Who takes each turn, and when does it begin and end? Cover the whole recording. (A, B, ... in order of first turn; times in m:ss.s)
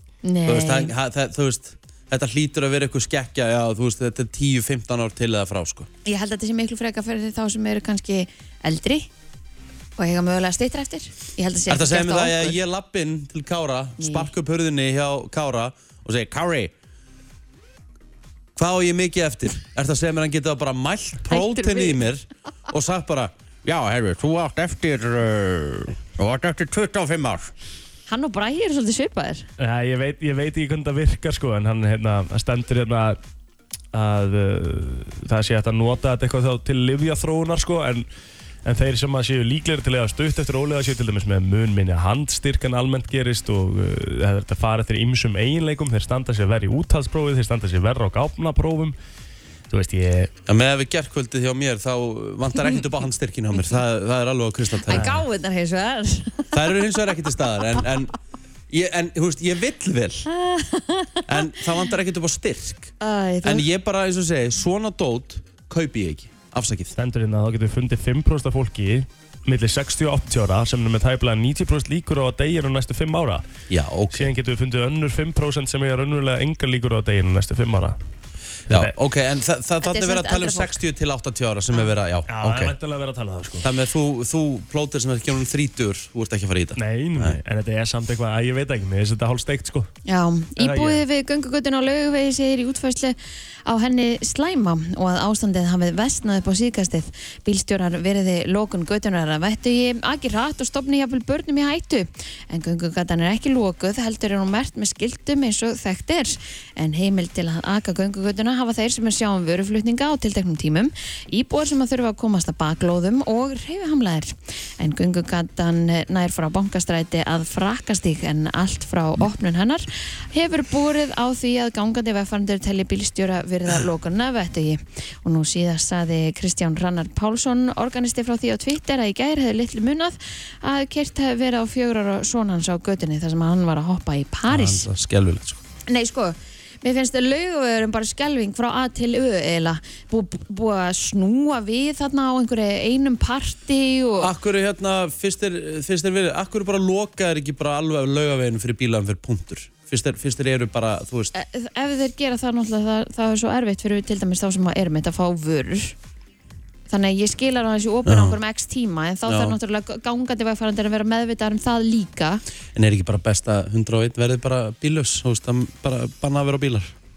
0:00.2-0:00.9 A
0:00.4-0:05.9 B
0:06.0-0:09.1 A
0:10.0-0:12.6 A
0:11.7-0:16.7 B
0:14.0-0:14.3 A
0:18.6-0:27.5 B
0:21.3-0:22.0 A
0:28.1-0:29.5 A
0:29.6-0:33.2 C
0:33.9-0:38.0 C
0:38.6-0:49.0 C
0:49.7-0:50.3 C
0:50.5-0:55.1 B
0:54.9-0:56.6 A
0:54.9-0:55.2 C
0:56.5-0:58.1 B
0:58.7-1:00.3 B
1:00.3-1:01.5 A
1:01.3-1:07.0 B
1:03.0-1:03.6 A
1:07.0-1:13.4 C
1:13.7-1:14.3 B
1:14.1-1:18.0 C
1:18.7-1:22.7 B
1:19.8-1:20.8 A
1:22.3-1:23.7 C
1:23.6-1:27.4 B
1:26.8-1:29.9 C
1:30.0-2:14.9 A
1:30.6-1:31.0 C
2:14.5-2:15.6 B
2:15.9-2:24.3 A
2:24.2-2:31.3 B
2:31.3-2:36.0 A
2:36.9-2:42.4 A
2:38.0-2:38.4 B
2:39.2-2:39.6 B
2:42.7-2:46.9 B